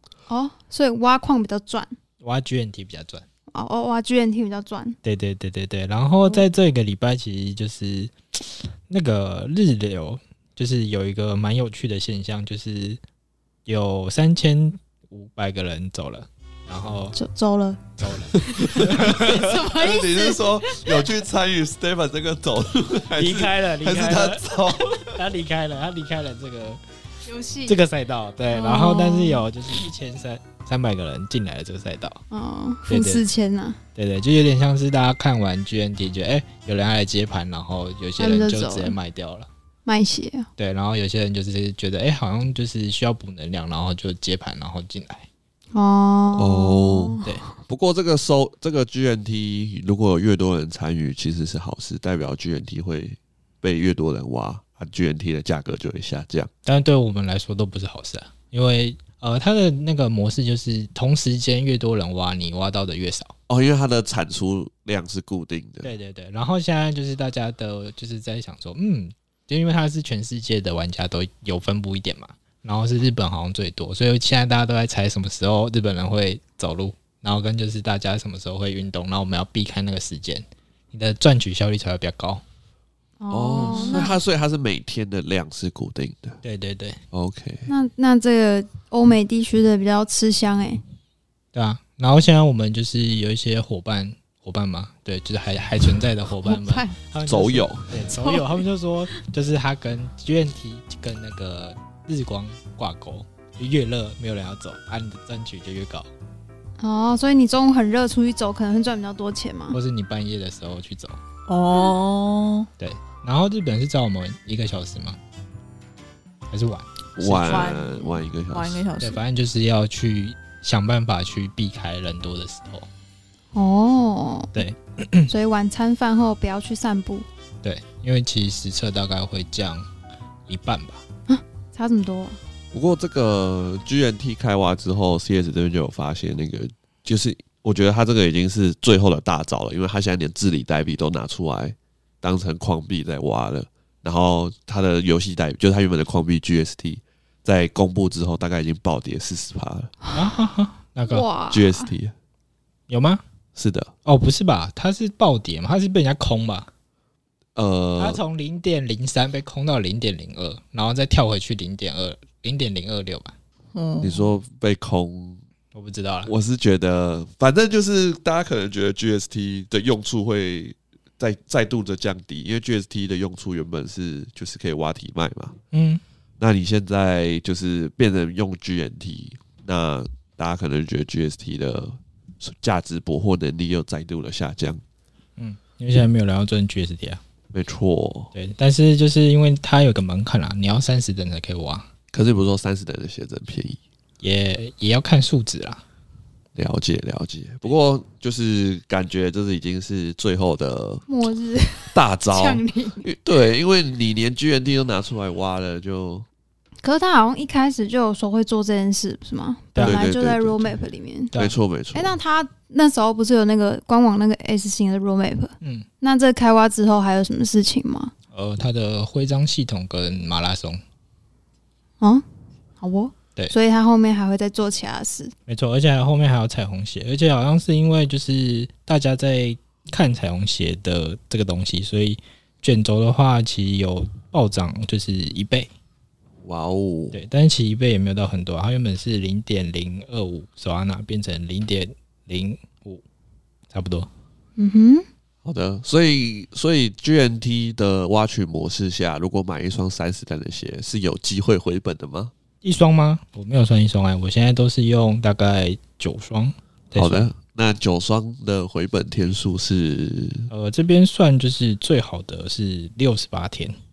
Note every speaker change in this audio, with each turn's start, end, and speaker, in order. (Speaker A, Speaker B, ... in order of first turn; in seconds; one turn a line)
Speaker A: 0.3-1.9
Speaker B: 2.2-3.2
Speaker A: 3.5-5.0
Speaker B: 5.0-13.0
Speaker B: 13.7-17.2
Speaker A: 17.1-17.9
Speaker B: 18.0-19.1
Speaker C: 18.3-25.2
Speaker A: 18.4-21.1
Speaker B: 23.1-24.4
Speaker B: 25.0-26.8
Speaker A: 27.2-27.8
Speaker B: 27.6-32.2
Speaker A: 28.5-29.4
Speaker A: 32.3-33.8
Speaker B: 32.9-33.2
Speaker B: 34.0-39.5
Speaker A: 38.2-39.0
Speaker A: 39.8-40.5
Speaker B: 40.6-45.3
Speaker A: 45.7-47.4
Speaker C: 46.4-56.5
Speaker B: 56.6-63.3
Speaker C: 63.5-65.9
Speaker B: 65.8-82.4
Speaker A: 83.2-84.2
Speaker C: 83.3-86.4
Speaker B: 83.7-84.1
Speaker B: 86.4-87.0
Speaker C: 87.1-87.7
Speaker A: 87.7-90.8
Speaker B: 91.5-106.1
Speaker A: 96.4-96.9
Speaker C: 97.2-97.9
Speaker A: 98.2-98.6
Speaker A: 106.8-109.8
Speaker B: 109.7-111.2
Speaker D: 111.5-112.7
Speaker B: 112.8-115.2
Speaker B: 116.5-117.7
Speaker C: 117.2-118.8
Speaker D: 117.3-119.2
Speaker B: 119.0-122.9
Speaker A: 123.5-124.5
Speaker B: 124.5-125.3
Speaker A: 125.3-127.2
Speaker B: 127.6-129.9
Speaker B: 130.5-131.0
Speaker A: 131.3-132.4
Speaker C: 132.7-149.9
Speaker B: 150.1-151.2
Speaker A: 151.1-151.9
Speaker C: 151.5-152.1
Speaker B: 152.9-153.2
Speaker C: 153.5-153.9
Speaker B: 154.0-156.7
Speaker C: 157.6-158.2
Speaker B: 158.0-163.3
Speaker D: 163.7-164.3
Speaker C: 164.0-165.4
Speaker B: 165.7-166.3
Speaker C: 166.2-175.6
Speaker B: 175.7-176.0
Speaker C: 176.4-184.8
Speaker B: 185.4-187.2
Speaker C: 187.5-188.3
Speaker B: 188.3-191.9
Speaker C: 192.1-193.8
Speaker B: 194.2-195.8
Speaker C: 196.5-201.0
Speaker A: 201.1-203.1
Speaker C: 201.9-206.2
Speaker A: 206.8-211.3
Speaker B: 209.7-210.0
Speaker C: 209.8-210.8
Speaker C: 211.3-212.2
Speaker A: 211.9-218.1
Speaker B: 215.6-215.8
Speaker B: 218.3-220.8
Speaker A: 222.8-225.3
Speaker B: 225.5-235.7
Speaker C: 236.4-237.2
Speaker B: 237.1-243.0
Speaker B: 243.7-244.1
Speaker A: 244.6-245.1
Speaker C: 245.4-252.3
Speaker B: 252.6-257.3
Speaker C: 256.9-260.5
Speaker B: 260.5-263.8